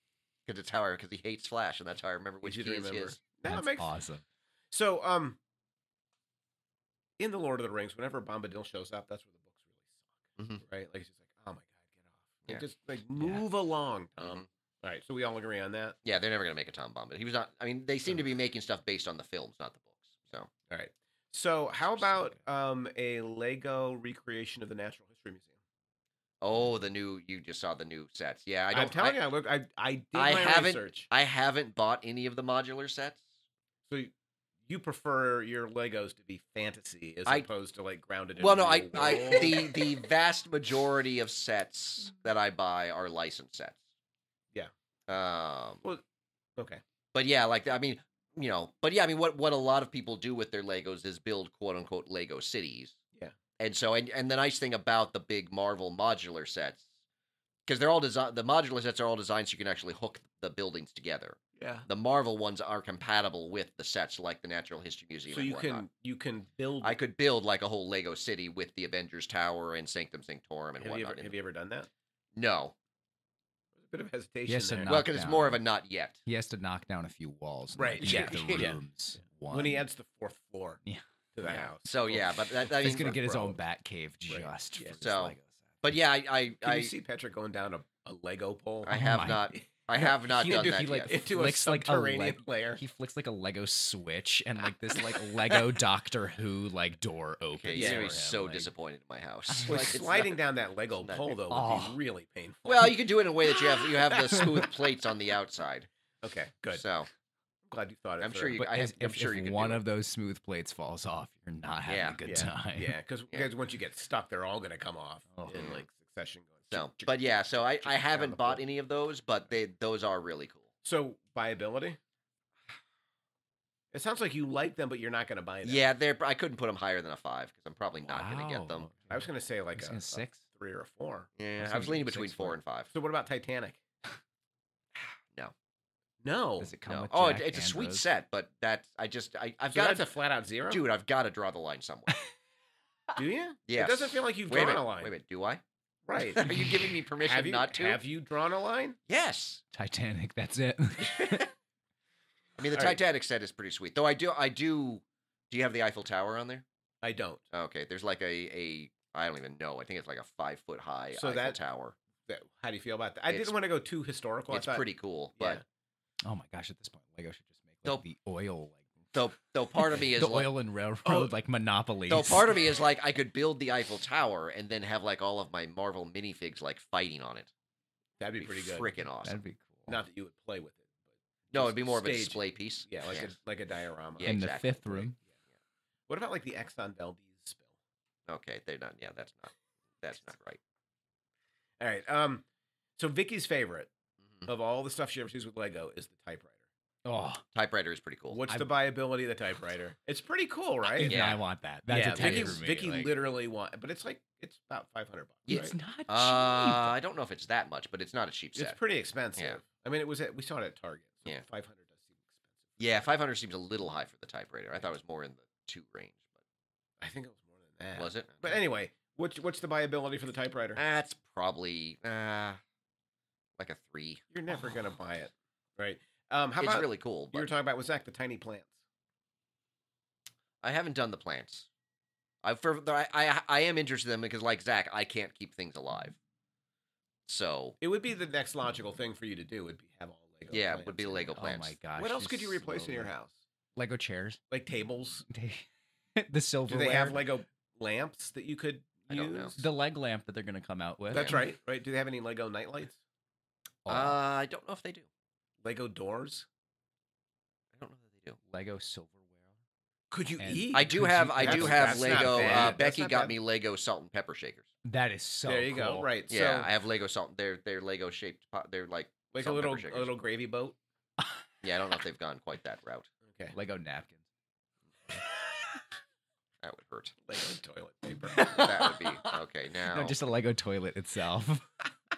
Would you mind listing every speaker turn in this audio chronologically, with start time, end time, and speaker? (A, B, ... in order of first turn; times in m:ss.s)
0:00.4-0:03.2 A
0:02.4-0:03.9 B
0:03.4-0:04.2 C
0:04.7-0:05.4 B
0:07.2-0:10.0 B
0:10.6-0:16.0 B
0:13.2-0:13.4 C
0:14.2-0:14.5 A
0:16.0-0:20.5 A
0:20.7-0:25.5 B
0:26.4-0:29.2 A
0:28.7-0:31.1 B
0:30.1-0:33.2 A
0:33.9-0:34.1 B
0:34.7-0:39.7 B
0:38.4-0:43.8 A
0:45.1-0:45.8 A
0:46.6-0:46.8 B
0:47.1-0:53.0 A
0:53.6-0:56.8 A
0:57.6-1:05.8 A
1:01.6-1:01.9 B
1:05.3-1:07.0 B
1:06.8-1:11.3 A
1:10.8-1:11.9 B
1:12.3-1:12.7 A
1:13.8-1:15.0 B
1:14.5-1:15.6 C
1:14.8-1:16.2 A
1:16.2-1:19.8 C
1:17.8-1:18.8 B
1:18.0-1:18.7 A
1:19.5-1:20.8 B
1:21.3-1:22.4 B
1:21.4-1:23.6 A
1:22.7-1:25.6 C
1:24.3-1:25.0 B
1:25.0-1:26.9 A
1:26.6-1:29.0 B
1:28.8-1:31.1 A
1:28.9-1:29.6 C
1:30.0-1:32.8 B
1:30.2-1:38.7 C
1:37.5-1:40.4 A
1:37.7-1:38.2 B
1:39.5-1:40.0 C
1:39.6-1:43.0 B
1:41.0-1:41.4 A
1:41.5-1:42.0 C
1:42.6-1:45.9 A
1:44.1-1:44.6 B
1:46.2-1:46.8 B
1:46.7-1:47.1 A
1:47.7-1:48.6 B
1:48.2-1:49.8 A
1:48.6-1:53.0 C
1:51.8-1:52.2 A
1:52.2-1:57.2 B
1:55.4-1:55.6 C
1:55.5-1:55.8 A
1:56.7-2:00.6 A
1:57.8-1:58.6 B
2:00.8-2:02.0 B
2:03.9-2:05.8 B
2:05.6-2:08.9 A
2:08.0-2:10.4 C
2:09.1-2:13.8 B
2:11.4-2:12.9 A
2:11.6-2:12.2 C
2:14.9-2:15.5 A
2:16.2-2:16.7 B
2:16.6-2:18.0 C
2:16.9-2:20.1 A
2:19.7-2:20.8 B
2:20.7-2:22.1 A
2:23.2-2:25.1 B
2:23.7-2:25.6 A
2:26.0-2:26.6 B
2:26.4-2:28.0 A
2:26.4-2:26.8 C
2:27.2-2:29.0 B
2:29.1-2:29.6 A
2:29.7-2:31.5 C
2:31.1-2:31.5 A
2:32.6-2:36.6 A
2:32.7-2:33.0 B
2:37.0-2:37.4 B
2:37.5-2:42.0 A
2:41.1-2:41.6 B
2:42.2-2:45.6 B
2:43.3-2:43.5 A
2:44.5-2:45.6 A
2:46.2-2:49.1 C
2:49.1-2:50.5 A
2:49.9-2:52.6 C
2:52.1-2:57.5 A
2:58.2-2:59.0 B
2:58.4-2:59.4 A
2:59.2-2:59.9 C
2:59.9-3:00.9 B
3:01.5-3:03.3 A
3:01.5-3:04.4 B
3:04.2-3:05.1 A
3:04.2-3:05.2 C
3:06.1-3:07.7 B
3:08.3-3:10.6 A
3:11.8-3:12.4 B
3:13.0-3:13.9 B
3:14.4-3:16.6 B
3:17.0-3:17.4 C
3:17.5-3:18.4 A
3:18.3-3:21.2 B
3:20.9-3:23.1 C
3:21.0-3:21.4 A
3:21.9-3:25.7 B
3:22.2-3:22.6 A
3:25.5-3:28.8 A
3:25.5-3:26.9 C
3:28.6-3:32.2 B
3:32.8-3:36.2 A
3:37.0-3:40.8 B
3:38.0-3:38.6 A
3:40.8-3:42.6 A
3:43.6-3:44.2 A
3:44.3-3:48.7 B
3:46.6-3:47.5 A
3:50.6-3:51.7 A
3:52.4-3:56.2 A
3:57.2-3:57.8 A
3:57.8-4:01.3 B
4:00.5-4:01.7 A
4:01.4-4:03.1 C
4:02.0-4:03.3 B
4:03.8-4:04.4 C
4:04.5-4:05.2 B
4:05.3-4:07.2 C
4:06.7-4:09.6 B
4:09.1-4:09.5 A
4:09.6-4:11.4 C
4:11.1-4:13.0 B
4:11.1-4:11.4 A
4:13.8-4:14.2 C
4:13.9-4:15.0 A
4:15.6-4:16.4 B
4:17.8-4:18.4 A
4:18.5-4:19.3 C
4:20.1-4:23.3 B
4:20.4-4:22.8 C
4:20.7-4:24.7 A
4:24.8-4:26.1 C
4:25.4-4:26.7 B
4:26.3-4:30.1 A
4:29.3-4:30.8 B
4:31.6-4:33.1 A
4:33.3-4:33.5 B
4:33.5-4:34.2 C
4:36.6-4:37.1 A
4:37.3-4:38.7 B
4:38.3-4:41.7 C
4:38.5-4:40.2 A